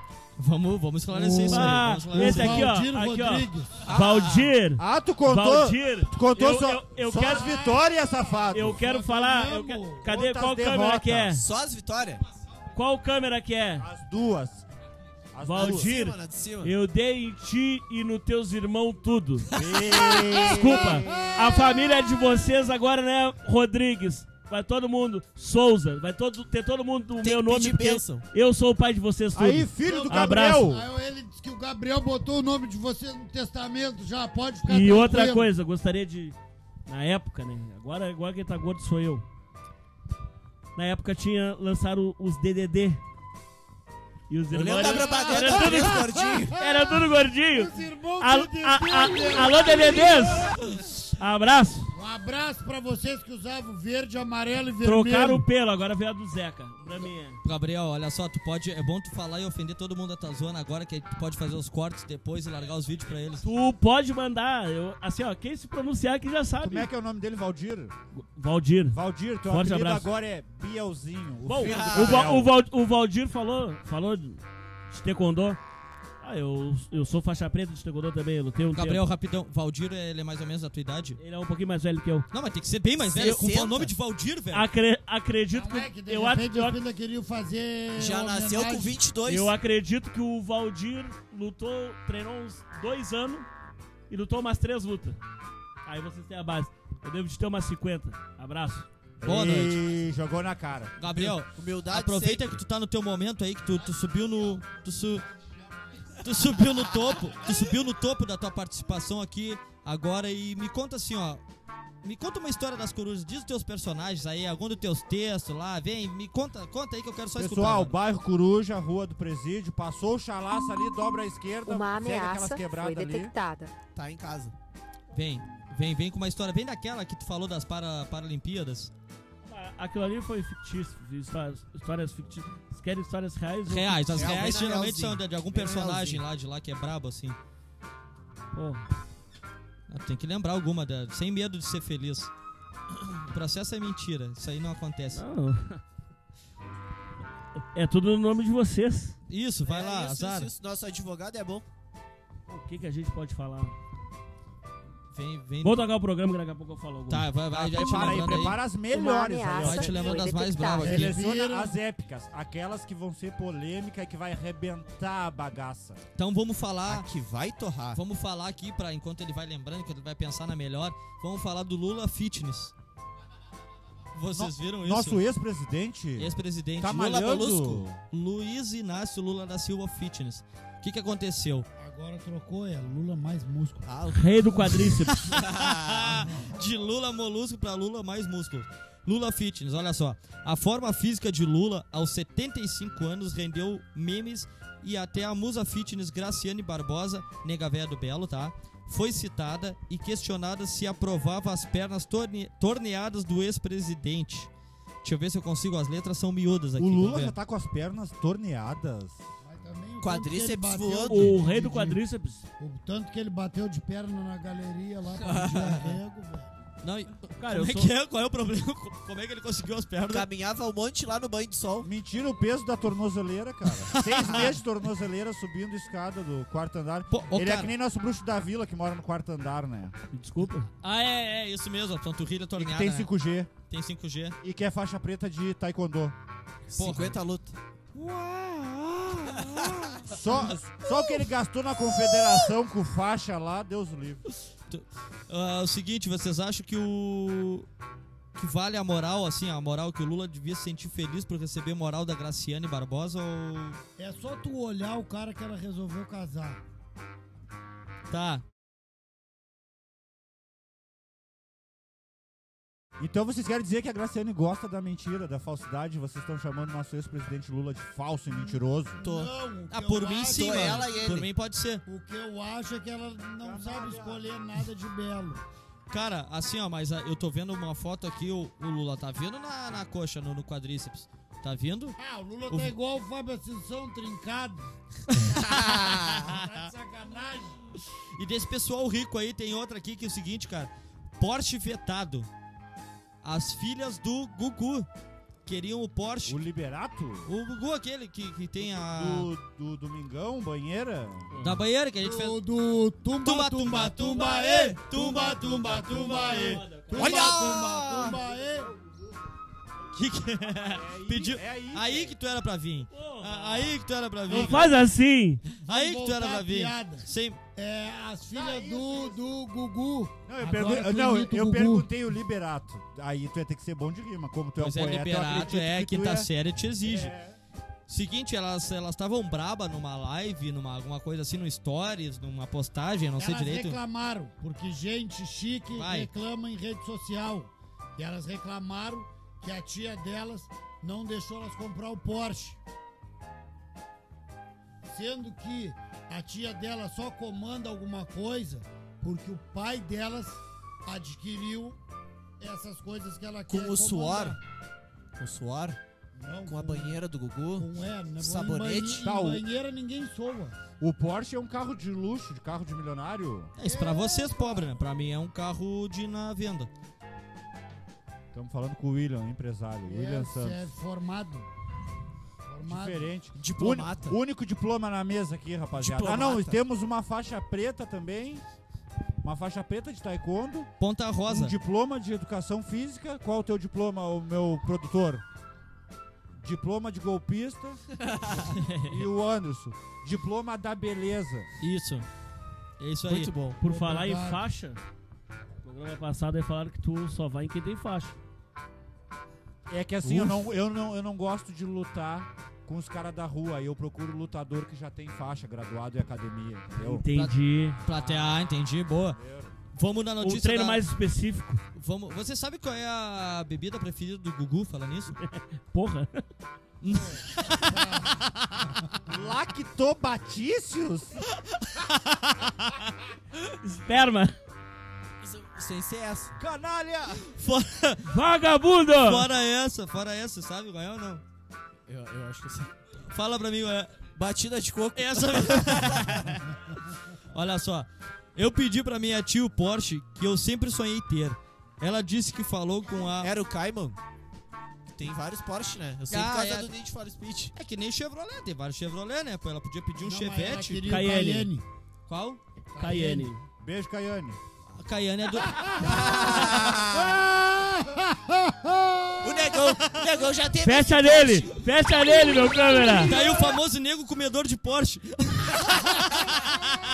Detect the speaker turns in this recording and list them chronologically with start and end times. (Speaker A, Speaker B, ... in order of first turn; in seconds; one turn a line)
Speaker A: 0.4-2.7
Speaker B: 1.1-3.8
Speaker C: 1.1-7.5
Speaker D: 3.9-4.2
Speaker E: 4.8-8.8
Speaker B: 7.1-10.1
Speaker C: 8.5-11.4
Speaker E: 10.0-11.4
Speaker D: 11.3-12.2
Speaker C: 12.7-13.9
Speaker E: 13.8-14.6
Speaker E: 15.3-15.9
Speaker C: 15.4-30.7
Speaker D: 15.6-16.7
Speaker E: 19.5-21.4
Speaker B: 20.1-21.3
Speaker D: 27.2-28.2
Speaker E: 29.3-30.9
Speaker B: 29.8-35.5
Speaker C: 34.7-36.4
Speaker C: 36.9-39.2
Speaker C: 40.8-43.0
Speaker C: 44.3-46.0
Speaker D: 44.5-46.5
Speaker B: 44.8-46.6
Speaker C: 46.6-51.9
Speaker B: 47.5-50.5
Speaker B: 51.9-55.4
Speaker C: 54.8-57.4
Speaker A: 57.4-63.4
Speaker C: 63.4-66.9
Speaker E: 66.6-67.9
Speaker C: 68.1-70.1
Speaker E: 68.9-72.5
Speaker C: 71.5-75.6
Speaker D: 71.6-72.4
Speaker C: 76.2-79.0
Speaker A: 78.7-81.2
Speaker C: 81.2-82.2
Speaker A: 82.3-84.7
Speaker D: 83.0-83.9
Speaker C: 84.5-86.8
Speaker B: 85.5-89.0
Speaker D: 87.9-89.5
Speaker C: 89.2-93.5
Speaker C: 94.1-95.2
Speaker C: 95.8-98.9
Speaker E: 99.2-101.3
Speaker A: 99.2-99.8
Speaker A: 101.0-105.2
Speaker D: 101.4-102.6
Speaker A: 106.2-111.4
Speaker A: 112.0-117.9
Speaker E: 117.3-123.3
Speaker F: 121.7-123.7
Speaker D: 123.9-124.5
Speaker A: 125.1-128.9
Speaker C: 129.4-134.3
Speaker A: 133.7-137.4
Speaker D: 134.1-136.2
Speaker C: 138.5-138.8
Speaker A: 139.9-142.3
Speaker A: 142.9-145.2
Speaker C: 145.1-145.8
Speaker C: 147.7-149.2
Speaker A: 149.3-150.5
Speaker D: 149.6-151.7
Speaker C: 152.5-153.7
Speaker A: 155.1-155.9
Speaker C: 155.6-157.3
Speaker A: 157.1-158.6
Speaker E: 157.5-160.3
Speaker F: 157.8-161.0
Speaker A: 159.5-161.1
Speaker E: 160.8-166.0
Speaker B: 160.8-161.7
Speaker A: 166.2-167.1
Speaker D: 166.9-168.0
Speaker A: 167.9-172.7
Speaker A: 174.1-175.2
Speaker E: 174.3-178.0
Speaker A: 176.2-181.7
Speaker B: 181.8-183.9
Speaker D: 183.8-184.2
Speaker C: 184.1-185.3
Speaker A: 185.1-204.5
Speaker D: 185.3-186.1
Speaker B: 186.2-186.4
Speaker A: 205.0-207.3
Speaker E: 206.8-209.2
Speaker B: 209.4-212.0
Speaker D: 210.0-211.4
Speaker C: 211.1-212.4
Speaker B: 212.6-216.5
Speaker D: 215.2-215.9
Speaker A: 216.8-220.3
Speaker C: 217.4-217.9
Speaker D: 220.1-221.9
Speaker E: 221.8-229.9
Speaker A: 223.9-224.6
Speaker A: 227.1-227.7
Speaker C: 230.1-230.7
Speaker A: 230.8-233.1
Speaker E: 232.6-233.5
Speaker A: 233.7-234.3
Speaker E: 234.4-236.2
Speaker D: 236.7-237.5
Speaker A: 236.8-237.2
Speaker E: 237.9-244.2
Speaker A: 244.7-247.7
Speaker A: 248.3-253.8
Speaker B: 254.0-256.6
Speaker A: 258.1-258.4
Speaker E: 263.0-269.0
Speaker B: 268.3-270.9
Speaker D: 269.0-269.3
Speaker A: 269.7-271.8
Speaker D: 270.3-271.3
Speaker B: 271.9-275.4
Speaker E: 273.4-274.2
Speaker A: 275.9-282.0
Speaker B: 282.0-284.7
Speaker A: 282.5-282.7
Speaker A: 285.1-286.6
Speaker B: 285.8-287.6
Speaker A: 288.1-292.3
Speaker A: 293.2-294.9
Speaker A: 295.4-296.4
Speaker E: 296.2-297.3
Speaker A: 297.2-299.3
Speaker E: 298.6-301.4
Speaker A: 301.4-302.4
Speaker B: 302.0-308.7
Speaker A: 303.2-308.2
Speaker C: 306.2-307.2
Speaker D: 306.9-308.1
Speaker A: 309.9-314.7
Speaker E: 310.5-312.1
Speaker C: 312.9-313.7
Speaker B: 314.3-314.7
Speaker C: 314.3-315.4
Speaker A: 315.6-317.4
Speaker B: 315.6-321.9
Speaker E: 318.3-319.2
Speaker E: 320.3-326.3
Speaker A: 324.6-327.1
Speaker E: 326.8-327.4
Speaker A: 327.9-333.8
Speaker B: 333.2-342.6
Speaker A: 335.8-336.1
Speaker B: 344.9-351.8
Speaker B: 352.4-354.4
Speaker D: 353.5-354.4
Speaker D: 355.2-355.8
Speaker B: 356.1-360.6
Speaker D: 356.4-359.0
Speaker E: 359.0-359.4
Speaker E: 360.8-363.5
Speaker A: 363.6-366.7
Speaker B: 363.6-364.8
Speaker E: 368.3-370.6
Speaker B: 369.9-371.5
Speaker B: 372.4-373.1
Speaker E: 372.6-378.4
Speaker D: 373.3-374.2
Speaker D: 375.8-376.6
Speaker E: 379.2-380.7
Speaker A: 380.8-381.5
Speaker E: 381.3-385.2
Speaker E: 386.4-391.5
Speaker A: 391.6-392.1
Speaker A: 392.8-393.3
Speaker D: 393.1-393.6
Speaker C: 393.6-394.8
Speaker B: 393.6-394.4
Speaker C: 395.6-398.1
Speaker E: 399.7-407.1
Speaker D: 400.0-400.4
Speaker C: 406.8-407.8
Speaker A: 407.8-409.2
Speaker E: 409.1-409.5
Speaker A: 409.7-410.8
Speaker C: 410.2-411.6
Speaker A: 411.7-415.1
Speaker C: 415.2-416.2
Speaker A: 416.8-418.4
Speaker B: 417.2-418.1
Speaker E: 419.1-421.2
Speaker A: 421.5-422.8
Speaker C: 423.6-424.3
Speaker D: 425.2-426.3
Speaker E: 426.4-427.3
Speaker A: 427.2-428.1
Speaker C: 428.1-429.3
Speaker A: 429.0-431.2
Speaker D: 431.9-432.7
Speaker A: 433.1-434.0
Speaker D: 434.1-436.2
Speaker A: 434.9-436.4
Speaker A: 437.3-443.3
Speaker D: 443.0-444.0
Speaker D: 444.9-447.5
Speaker A: 446.1-446.7
Speaker A: 447.5-451.0
Speaker B: 450.0-451.6
Speaker C: 450.9-451.5
Speaker A: 452.1-452.4
Speaker B: 452.7-453.3
Speaker C: 452.8-453.4
Speaker E: 453.6-454.4
Speaker A: 454.7-456.7
Speaker D: 455.8-457.1
Speaker B: 457.1-458.9
Speaker D: 459.2-461.5
Speaker C: 460.6-463.1
Speaker A: 463.0-466.0